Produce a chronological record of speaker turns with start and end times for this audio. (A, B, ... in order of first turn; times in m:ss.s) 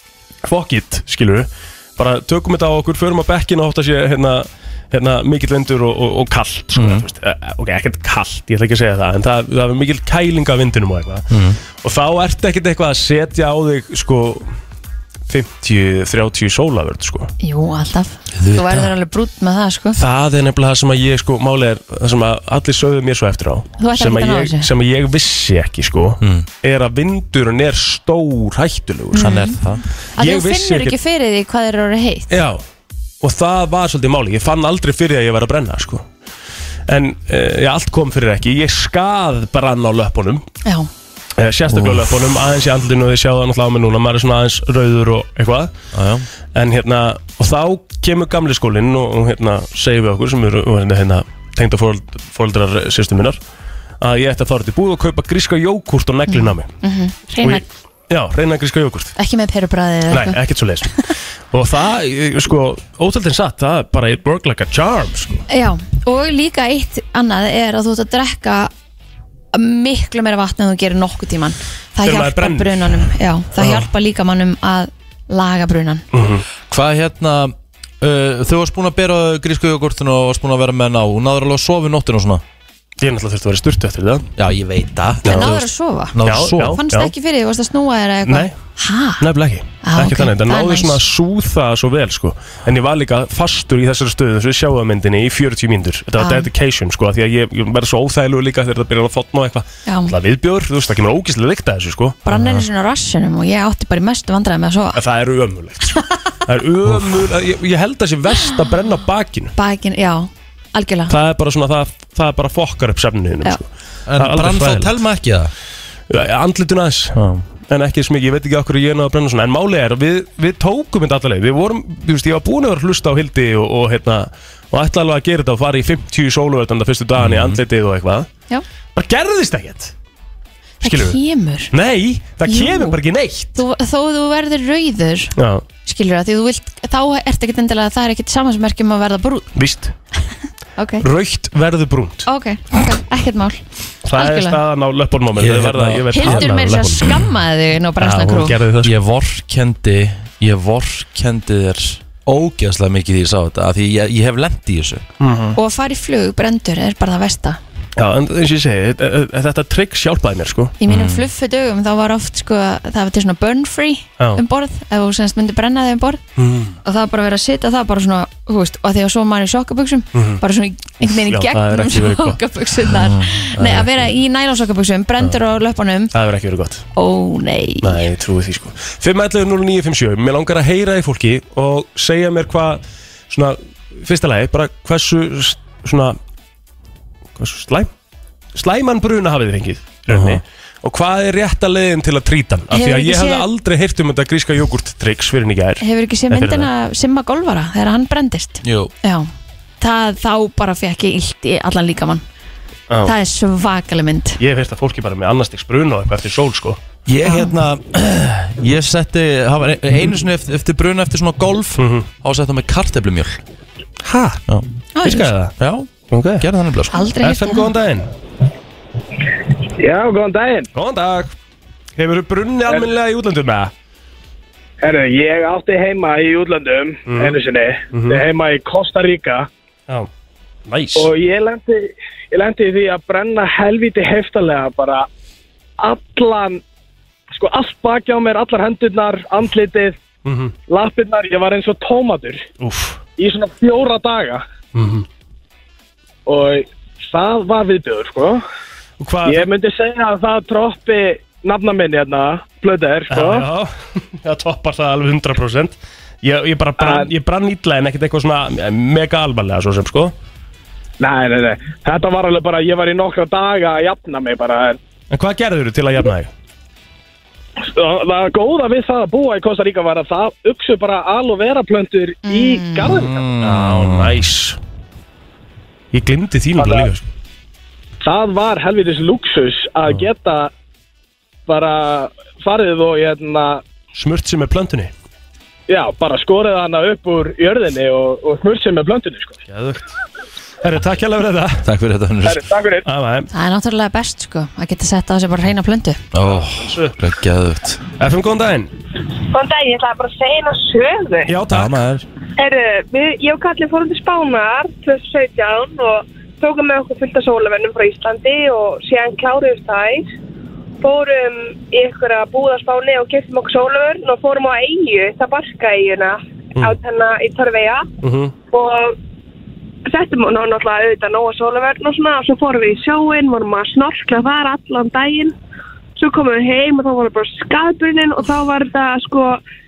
0:00.4-0:11.3 A
0:06.7-0:07.0 B
0:11.3-0:11.6 B
0:11.8-0:14.5 A
0:15.3-0:17.3 A
0:17.4-0:20.0 C
0:18.4-0:18.9 B
0:20.0-0:29.4 A
0:23.8-0:24.7 C
0:26.2-0:26.5 B
0:29.1-0:29.6 C
0:29.2-0:29.8 B
0:30.2-0:31.0 A
0:30.2-0:32.3 C
0:32.3-0:32.6 A
0:33.2-0:36.0 A
0:36.9-0:40.4 A
0:41.4-0:45.7 A
0:41.7-0:42.0 B
0:45.9-0:46.3 B
0:46.5-0:53.4 A
0:54.0-0:56.7 A
0:56.3-0:57.6 C
0:57.4-0:59.1 A
0:59.2-1:00.4 C
1:00.1-1:05.4 A
1:05.5-1:08.7 C
1:09.5-1:16.0 C
1:12.0-1:13.9 A
1:16.1-1:16.4 A
1:16.7-1:22.4 B
1:23.0-1:24.3 A
1:24.4-1:26.8 B
1:25.2-1:29.2 C
1:25.2-1:25.6 A
1:26.2-1:27.1 A
1:28.2-1:28.5 A
1:29.2-1:42.2 A
1:29.8-1:31.0 C
1:36.2-1:36.5 C
1:39.8-1:40.1 C
1:42.2-1:45.0 C
1:42.3-1:42.6 B
1:44.9-1:49.5 A
1:46.9-1:47.2 B
1:49.6-1:51.1 C
1:51.1-1:54.9 A
1:54.1-1:55.5 B
1:56.1-2:08.3 A
1:57.1-1:57.4 B
2:07.2-2:07.6 B
2:08.9-2:09.9 A
2:10.8-2:11.2 A
2:10.8-2:11.7 C
2:11.7-2:13.6 A
2:12.4-2:13.0 C
2:13.5-2:15.3 C
2:15.4-2:15.6 A
2:15.8-2:19.5 C
2:19.5-2:19.9 A
2:20.8-2:21.0 C
2:21.0-2:22.3 A
2:22.2-2:23.6 C
2:24.0-2:27.1 A
2:24.2-2:24.6 C
2:25.3-2:26.5 B
2:26.1-2:28.6 C
2:28.0-2:28.9 A
2:28.8-2:35.1 B
2:35.2-2:35.5 A
2:35.6-2:37.6 C
2:38.0-2:40.7 A
2:40.8-2:46.2 C
2:40.9-2:41.2 B
2:46.4-2:46.8 A
2:46.8-2:56.1 C
2:50.1-2:50.4 A
2:51.2-2:52.4 A
2:53.6-2:53.9 A
2:56.1-2:56.8 A
2:57.0-2:58.0 C
2:57.8-3:06.2 A
3:07.4-3:07.9 A
3:08.5-3:16.7 A
3:10.1-3:10.4 B
3:12.7-3:13.4 C
3:15.8-3:19.3 C
3:18.6-3:18.9 B
3:19.8-3:22.2 C
3:22.9-3:23.1 A
3:23.0-3:24.4 C
3:24.4-3:26.8 A
3:27.0-3:33.4 B
3:27.2-3:27.5 C
3:31.8-3:32.1 A
3:34.0-3:34.4 A
3:34.9-3:35.3 C
3:35.0-3:35.5 A
3:35.6-3:36.9 B
3:36.1-3:36.4 A
3:36.9-3:37.7 C
3:37.2-3:38.1 A
3:39.8-3:40.7 D
3:40.7-3:41.3 A
3:42.0-3:43.7 A
3:44.8-3:49.5 D
3:47.1-3:47.4 A
3:47.9-3:48.2 A
3:50.7-3:51.1 A
3:51.0-3:55.1 D
3:55.8-3:56.6 D
3:57.3-4:00.0 D
4:00.2-4:00.5 A
4:00.7-4:02.4 D
4:02.6-4:03.0 A
4:03.2-4:04.4 D
4:04.7-4:05.0 A
4:06.2-4:08.4 D
4:09.0-4:09.5 A
4:09.2-4:13.4 D
4:13.1-4:20.1 A
4:16.8-4:17.1 D
4:21.0-4:24.8 D
4:25.1-4:26.3 A
4:27.6-4:33.1 D
4:32.2-4:33.0 C
4:32.8-4:34.2 B
4:33.4-4:34.6 A
4:35.9-4:37.0 A
4:36.6-4:36.9 D
4:38.0-4:40.5 D
4:41.5-4:43.6 D
4:43.9-4:44.9 A
4:45.7-4:49.4 D
4:49.5-4:49.9 A
4:50.6-4:51.6 A
4:51.6-4:52.4 B
4:52.2-4:52.9 D
4:52.8-4:53.3 A
4:53.3-4:56.0 C
4:56.1-4:57.8 B
4:56.2-4:56.9 A
4:58.0-4:58.7 A
4:59.3-5:01.3 E
5:01.3-5:01.9 A
5:01.5-5:02.0 B
5:02.4-5:10.1 E
5:10.8-5:17.9 E
5:18.0-5:18.3 A
5:18.5-5:19.0 E
5:19.8-5:25.3 E
5:26.0-5:29.4 E